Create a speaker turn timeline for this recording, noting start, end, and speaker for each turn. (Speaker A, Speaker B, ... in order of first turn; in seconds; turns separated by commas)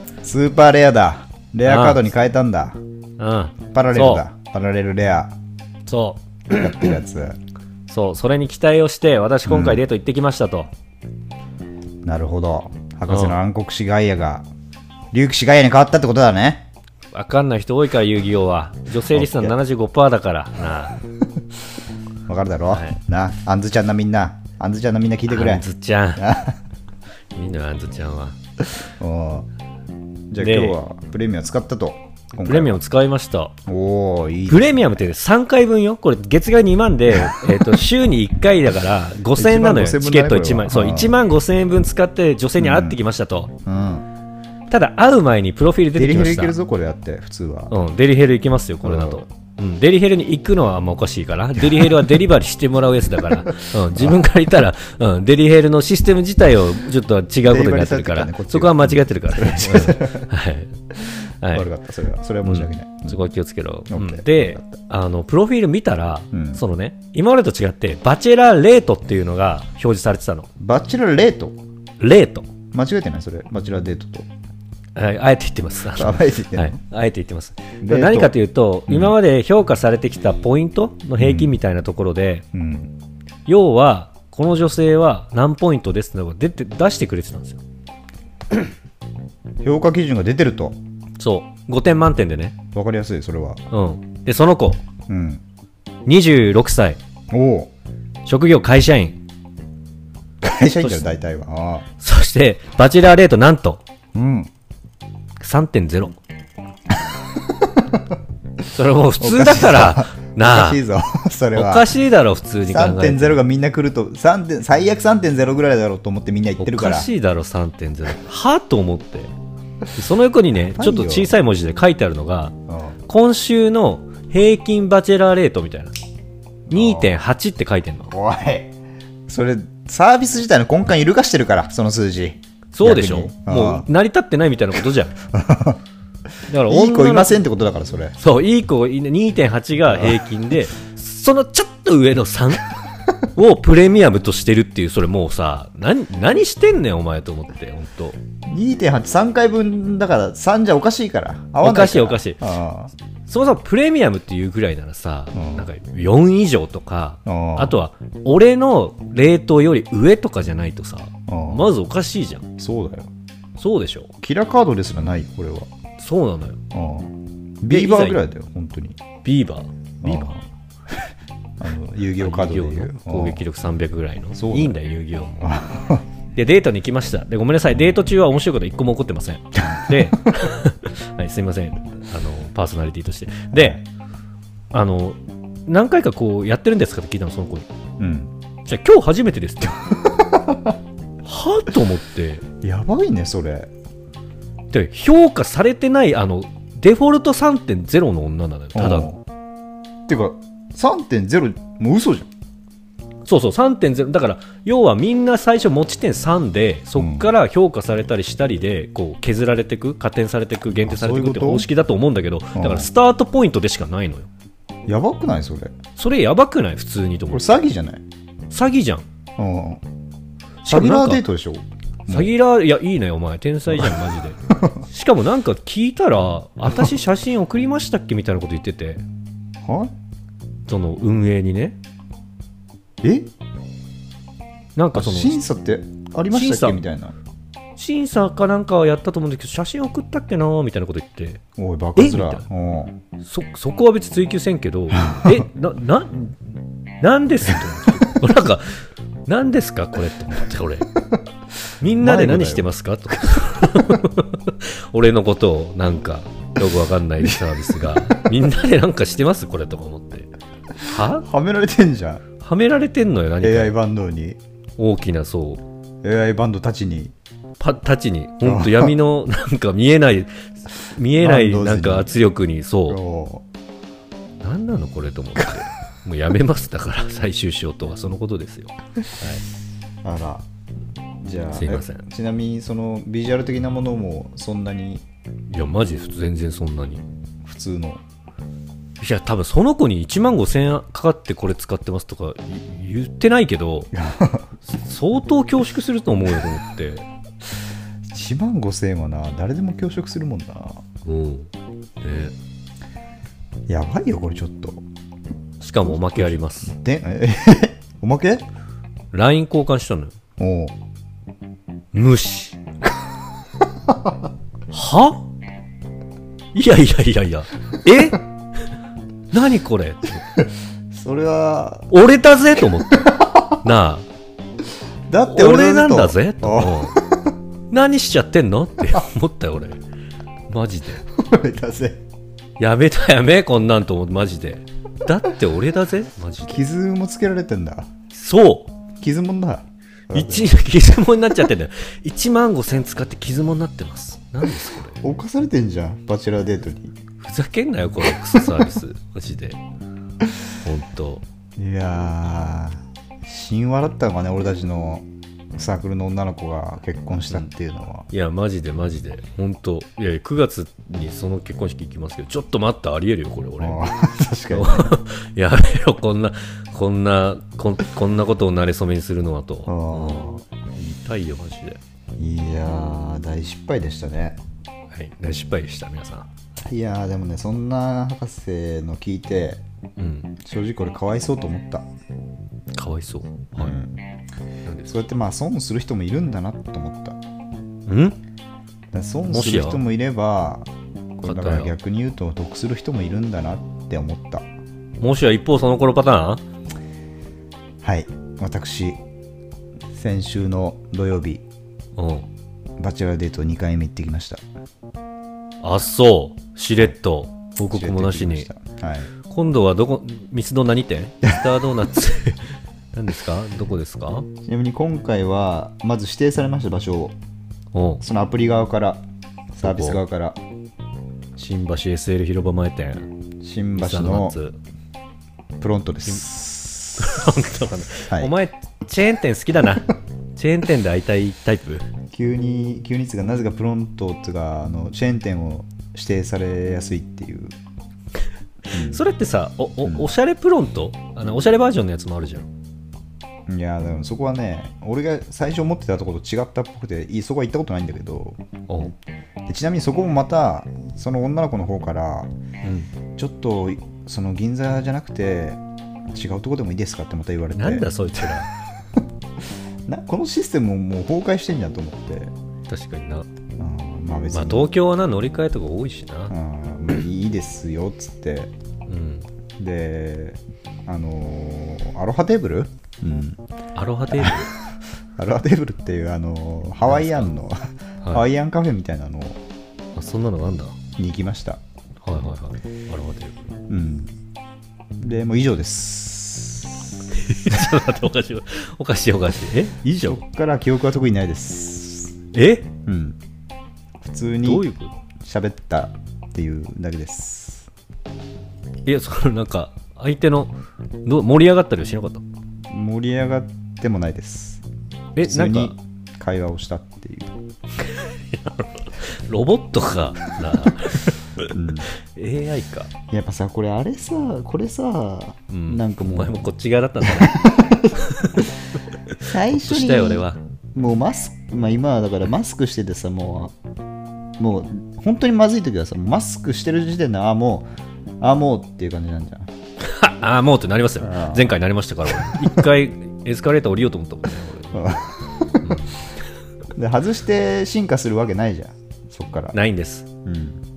Speaker A: 0.2-2.8, Speaker B: 1.6-2.0, Speaker B: 3.2-4.2, Speaker A: 3.7-5.3, Speaker B: 5.8-6.2, Speaker A: 6.5-7.4, Speaker B: 7.9-10.7, Speaker A: 9.4-9.8, Speaker A: 12.0-14.5, Speaker B: 13.1-13.4, Speaker A: 15.1-16.7, Speaker B: 17.1-21.0, Speaker A: 19.0-19.6, Speaker A: 22.3-26.6, Speaker B: 22.7-23.0, Speaker B: 25.3-26.2, Speaker B: 27.3-28.4, Speaker A: 28.8-29.5, Speaker A: 30.3-32.8, Speaker B: 30.4-30.8, Speaker B: 32.4-33.5, Speaker A: 33.6-34.9, Speaker B: 34.5-43.5, Speaker A: 37.2-37.6, Speaker A: 39.2-41.2, Speaker A: 42.6-43.0, Speaker A: 43.6-44.0, Speaker B: 44.7-46.6, Speaker A: 45.9-47.7, Speaker B: 47.7-61.7, Speaker A: 48.8-49.2, Speaker A: 57.4-60.3, Speaker A: 61.0-63.2, Speaker B: 62.4-70.5, Speaker A: 63.9-64.8, Speaker A: 66.3-66.6, Speaker A: 70.6-71.6, Speaker B: 72.0-72.5, Speaker A: 72.7-74.3, Speaker B: 74.9-82.4, Speaker A: 75.9-76.8, Speaker A: 77.8-79.2, Speaker A: 81.2-81.6, Speaker A: 82.5-82.9, Speaker B: 83.5-87.6, Speaker A: 89.6-90.8, Speaker B: 91.2-92.6, Speaker A: 92.7-93.6, Speaker B: 93.7-94.8, Speaker A: 95.1-95.4, Speaker B: 96.0-97.0, Speaker A: 97.3-97.7, Speaker B: 98.2-99.2, Speaker A: 100.4-101.9, Speaker B: 100.7-101.1, Speaker B: 102.0-103.8, Speaker A: 104.1-104.5, Speaker B: 105.4-106.2, Speaker A: 107.4-108.0, Speaker B: 108.7-110.8, Speaker A: 109.2-111.9, Speaker B: 111.5-113.4, Speaker A: 112.7-117.1, Speaker B: 116.6-119.3, Speaker B: 119.9-122.5, Speaker A: 120.7-121.4, Speaker A: 122.7-123.0, Speaker B: 123.1-125.9, Speaker A: 126.7-127.2, Speaker B: 126.7-128.1, Speaker A: 128.1-128.7, Speaker A: 129.3-133.9, Speaker B: 132.7-135.2, Speaker A: 135.3-135.8, Speaker B: 136.5-137.4, Speaker A: 136.6-138.2, Speaker B: 138.2-148.2, Speaker A: 139.9-140.3, Speaker A: 148.4-152.9, Speaker B: 151.6-152.4, Speaker B: 153.3-162.4, Speaker A: 155.3-155.7, Speaker A: 157.2-157.8, Speaker A: 161.3-161.7, Speaker A: 162.6-163.1, Speaker B: 163.6-164.1, Speaker A: 164.2-165.7, Speaker B: 166.0-166.6, Speaker A: 166.7-169.0, Speaker B: 167.7-168.2, Speaker B: 169.2-170.4, Speaker A: 170.0-170.9, Speaker A: 171.6-173.4, Speaker B: 172.2-175.4, Speaker A: 174.3-174.8, Speaker A: 175.3-176.0, Speaker B: 176.3-183.8, Speaker A: 179.7-180.1, Speaker A: 183.5-183.8, Speaker B: 184.7-187.7, Speaker A: 188.0-188.3, Speaker B: 188.7-190.2, Speaker A: 190.3-190.7, Speaker B: 191.2-192.4, Speaker A: 192.6-193.7, Speaker B: 194.7-199.1, Speaker A: 198.7-199.2, Speaker A: 200.1-202.3, Speaker B: 203.2-214.3, Speaker A: 206.9-207.3, Speaker A: 210.7-211.7, Speaker A: 212.5-212.9, Speaker A: 214.9-215.7, Speaker B: 215.9-217.6, Speaker A: 217.3-218.0, Speaker B: 218.5-219.1, Speaker A: 219.4-219.8, Speaker B: 220.6-221.2, Speaker A: 220.7-222.3, Speaker B: 222.1-229.0, Speaker A: 223.7-224.8, Speaker A: 229.6-229.9, Speaker B: 230.7-231.8, Speaker A: 233.0-233.3, Speaker B: 234.8-235.4, Speaker A: 234.9-237.1, Speaker B: 236.3-236.8, Speaker B: 237.8-241.4, Speaker A: 241.6-243.0, Speaker B: 241.9-242.4, Speaker B: 243.2-250.9, Speaker A: 244.9-245.4, Speaker A: 247.4-248.1, Speaker B: 251.8-261.2, Speaker A: 251.8-252.7, Speaker A: 257.2-258.2, Speaker A: 260.9-262.2, Speaker B: 262.4-263.8, Speaker A: 263.4-264.4, Speaker B: 264.8-265.6, Speaker A: 266.0-267.1, Speaker B: 267.6-273.0, Speaker A: 268.4-269.0, Speaker A: 271.1-272.1, Speaker A: 272.9-273.4, Speaker B: 274.4-279.4, Speaker A: 280.0-280.4, Speaker A: 281.2-285.0, Speaker B: 281.5-282.0, Speaker B: 285.5-287.0, Speaker A: 287.4-288.0, Speaker B: 289.0-293.9, Speaker A: 293.9-294.4, Speaker B: 294.6-297.1, Speaker A: 298.1-300.8, Speaker B: 301.1-301.5, Speaker B: 302.0-302.3, Speaker A: 303.7-304.8, Speaker B: 305.6-306.7, Speaker A: 305.8-308.4, Speaker B: 309.1-310.1, Speaker A: 310.4-310.8, Speaker B: 311.9-312.6, Speaker B: 314.7-315.2, Speaker B: 316.5-318.2, Speaker B: 319.3-320.2, Speaker A: 320.4-321.9, Speaker B: 321.9-324.1, Speaker A: 323.0-323.5, Speaker A: 325.1-327.2, Speaker B: 325.3-327.0, Speaker B: 327.7-329.8, Speaker B: 330.5-331.0, Speaker A: 331.1-332.0, Speaker B: 332.6-336.6, Speaker A: 336.4-337.9, Speaker B: 338.1-338.7, Speaker A: 339.0-340.6, Speaker B: 340.1-345.0, Speaker A: 345.0-347.0, Speaker B: 347.2-349.6, Speaker B: 350.6-351.2, Speaker A: 351.6-358.1, Speaker B: 358.1-363.9, Speaker A: 363.6-364.9, Speaker B: 364.5-371.8, Speaker A: 369.6-370.4, Speaker A: 372.2-374.4, Speaker B: 374.9-376.3, Speaker A: 376.6-379.6, Speaker B: 380.0-380.4, Speaker A: 380.4-381.9, Speaker B: 382.7-383.8, Speaker A: 383.6-383.9, Speaker B: 384.6-385.0, Speaker A: 384.8-387.2, Speaker B: 387.9-388.2, Speaker A: 388.9-394.5, Speaker B: 389.2-389.8, Speaker B: 391.2-391.7, Speaker B: 395.0-396.4, Speaker A: 397.8-399.0, Speaker A: 399.9-401.4, Speaker B: 402.0-402.3, Speaker A: 402.8-404.4, Speaker B: 405.6-408.5, Speaker A: 407.7-409.1, Speaker B: 409.2-414.3, Speaker A: 414.4-417.1, Speaker B: 417.7-418.0, Speaker A: 418.0-419.0, Speaker A: 419.6-420.4, Speaker B: 419.6-420.0, Speaker B: 421.4-423.1, Speaker A: 423.4-424.4, Speaker B: 423.8-424.6, Speaker A: 425.6-426.3, Speaker B: 426.1-431.9, Speaker A: 428.0-428.3, Speaker A: 432.1-437.5, Speaker A: 438.7-439.0, Speaker B: 438.7-442.5, Speaker A: 439.8-440.1, Speaker A: 443.5-448.4, Speaker B: 448.7-448.9, Speaker A: 449.5-452.3, Speaker B: 452.6-452.9, Speaker A: 453.1-458.5, Speaker B: 457.5-458.5, Speaker A: 459.9-462.3, Speaker B: 462.7-463.3, Speaker A: 463.6-464.7, Speaker B: 464.3-466.3, Speaker A: 466.3-468.5, Speaker B: 468.9-469.3, Speaker A: 469.6-473.4, Speaker B: 473.7-474.5, Speaker A: 474.1-474.5, Speaker A: 475.2-479.4, Speaker B: 476.8-477.3, Speaker B: 479.9-480.8, Speaker A: 481.0-481.6, Speaker B: 482.0-483.5, Speaker A: 483.7-484.1, Speaker A: 485.0-486.9, Speaker B: 487.1-490.2, Speaker A: 489.8-492.1, Speaker B: 492.3-492.7, Speaker A: 492.9-493.2, Speaker A: 494.0-494.6, Speaker B: 494.4-494.9, Speaker A: 495.2-497.7, Speaker B: 498.8-502.2, Speaker A: 502.7-504.6, Speaker B: 505.1-505.7, Speaker A: 505.2-507.3, Speaker B: 507.8-512.9, Speaker A: 511.5-511.9, Speaker A: 513.1-516.5, Speaker B: 515.5-518.5, Speaker A: 517.0-518.4, Speaker B: 519.1-520.4, Speaker A: 519.2-523.5, Speaker A: 524.4-529.5, Speaker B: 529.8-535.1, Speaker A: 531.0-532.7, Speaker A: 534.7-535.9, Speaker B: 535.6-536.1, Speaker A: 536.7-539.6, Speaker B: 539.5-540.1, Speaker A: 540.2-540.6